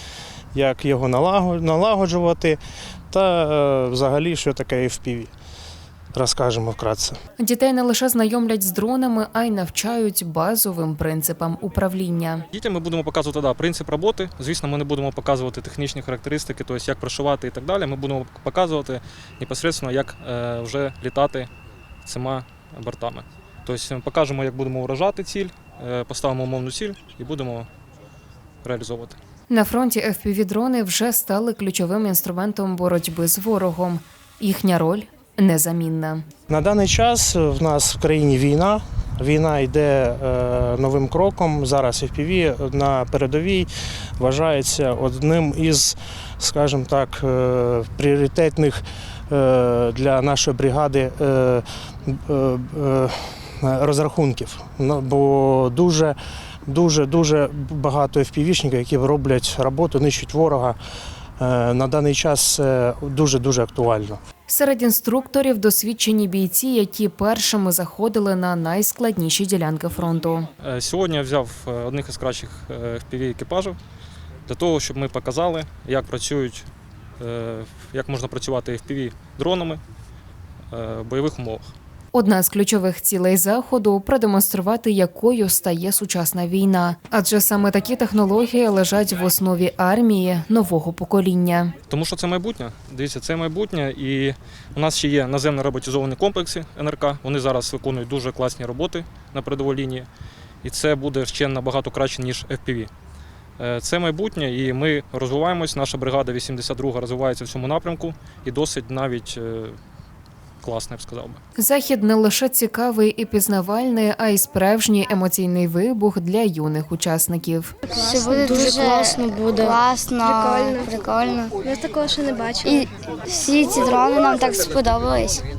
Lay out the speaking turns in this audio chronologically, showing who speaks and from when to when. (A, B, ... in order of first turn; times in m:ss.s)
0:00.5-0:02.6 A
0:03.1-0:05.3 A
0:06.1-0:07.2 A
0:07.4-0:12.4 B
0:12.5-0:21.5 C
0:22.0-0:27.7 C
0:28.6-0:29.2 C
0:29.5-0:36.2 B
0:36.5-0:56.2 A
0:56.7-1:00.8 A
1:01.4-1:04.2 A
1:04.5-1:10.5 B
1:10.6-1:13.8 C
1:14.5-1:16.7 C
1:17.2-1:19.8 C
1:20.7-1:21.7 C
1:22.1-1:31.7 B
1:31.9-1:40.1 C
1:40.6-1:42.9 C
1:43.6-1:49.8 C
1:50.6-1:51.4 C
1:51.6-1:57.7 B
1:57.9-2:01.6 D
1:58.0-1:59.1 E
2:00.2-2:00.9 E
2:01.6-2:02.7 E
2:02.6-2:05.4 D